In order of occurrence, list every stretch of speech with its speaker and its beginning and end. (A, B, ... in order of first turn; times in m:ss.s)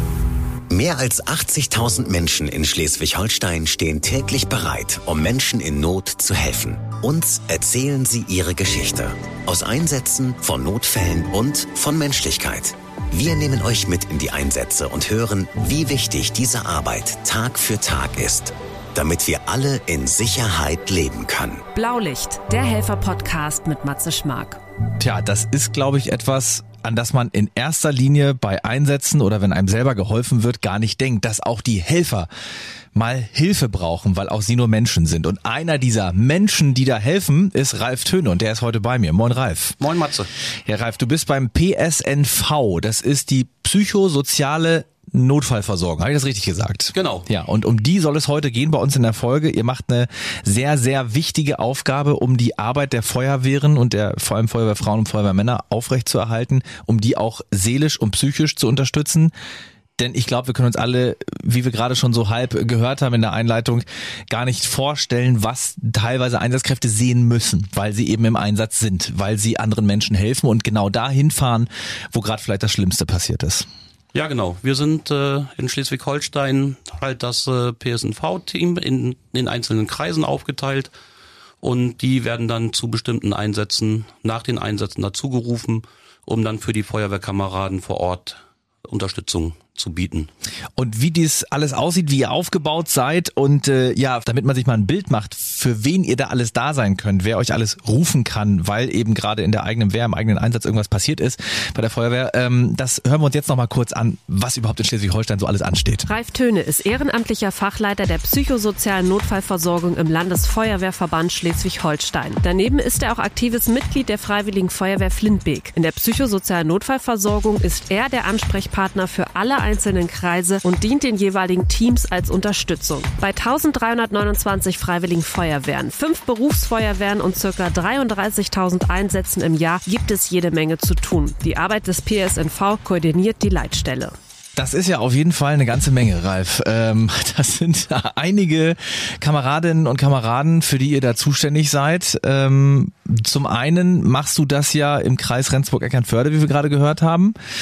0:00.7-0:21.6 A
0:21.7-0:24.6 B
0:25.0-0:32.3 C
0:32.9-0:39.8 C
0:39.8-0:40.3 D
0:40.6-0:59.3 C
0:46.9-0:47.3 D
1:00.0-1:13.7 C
1:14.1-1:20.9 D
1:21.6-1:30.3 D
1:30.8-1:46.0 C
1:46.1-2:14.1 B
2:14.6-2:27.4 C